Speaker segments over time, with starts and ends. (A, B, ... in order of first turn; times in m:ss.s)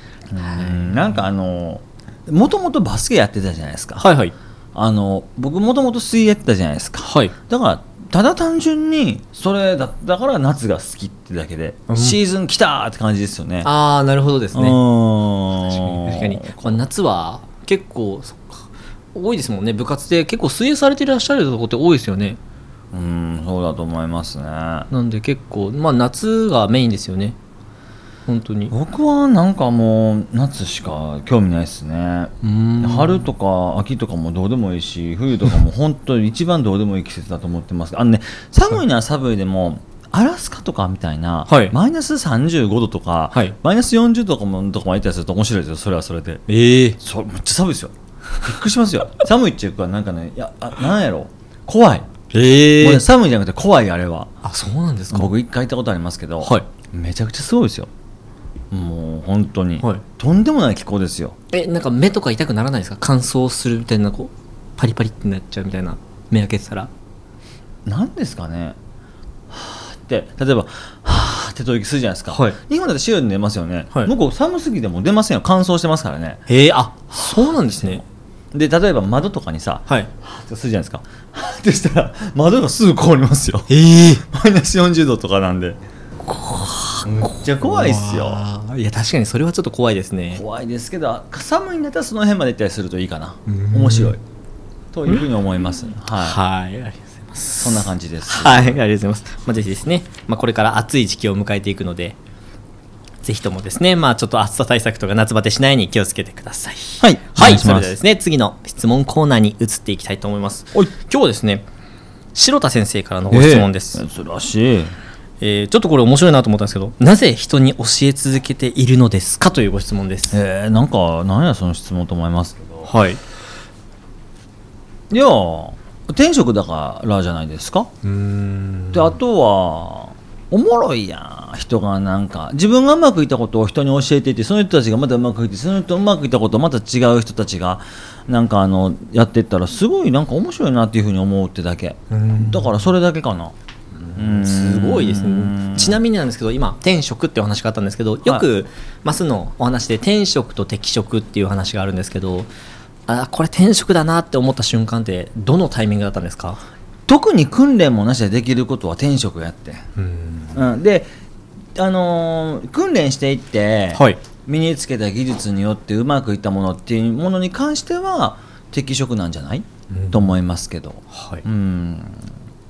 0:00.3-0:04.1 A
0:00.4-0:01.2 B
0:04.0-0:04.3 B
0:04.7-0:13.7 A
0:07.0-0:07.3 B
0:11.9-0:12.2 B
0:13.6-0:14.8 B
0:14.5-0:16.8 A
0:15.6-0:22.4 B
0:22.9-0:24.9 A
0:24.9-0:27.4 B
0:28.2-0:28.7 B
0:28.7-0:46.4 A
0:32.4-0:33.3 B
0:41.5-0:41.8 B
0:46.5-0:47.0 B
0:47.0-0:52.1 A
0:52.3-0:53.0 B
0:52.8-0:54.3 A
0:54.4-0:55.3 B
0:55.1-0:57.9 A
0:58.7-1:01.3 A
1:01.5-1:06.9 B
1:07.8-1:08.8 A
1:09.5-1:16.4 A
1:12.3-1:12.6 B
1:16.5-1:18.0 B
1:17.1-1:25.8 A
1:23.7-1:24.2 B
1:26.2-1:30.4 B
1:27.0-1:28.4 A
1:30.3-1:34.2 A
1:33.5-1:34.1 B
1:34.9-1:36.4 A
1:36.1-1:42.2 B
1:37.6-1:38.8 A
1:43.2-1:51.6 B
1:47.0-1:47.9 A
1:52.3-1:54.0 B
1:53.3-1:54.9 A
1:55.4-2:00.4 B
2:00.3-2:02.9 A
2:02.8-2:03.2 B
2:05.1-2:07.9 A
2:08.0-2:09.2 B
2:08.9-2:23.5 A
2:22.1-2:22.8 B
2:24.0-2:32.5 B
2:24.1-2:26.0 A
2:33.1-2:36.6 B
2:37.1-2:39.8 A
2:40.0-2:40.6 B
2:40.5-2:41.1 A
2:41.8-2:52.2 A
2:43.9-2:44.2 B
2:49.9-2:50.3 B
2:51.1-2:51.4 B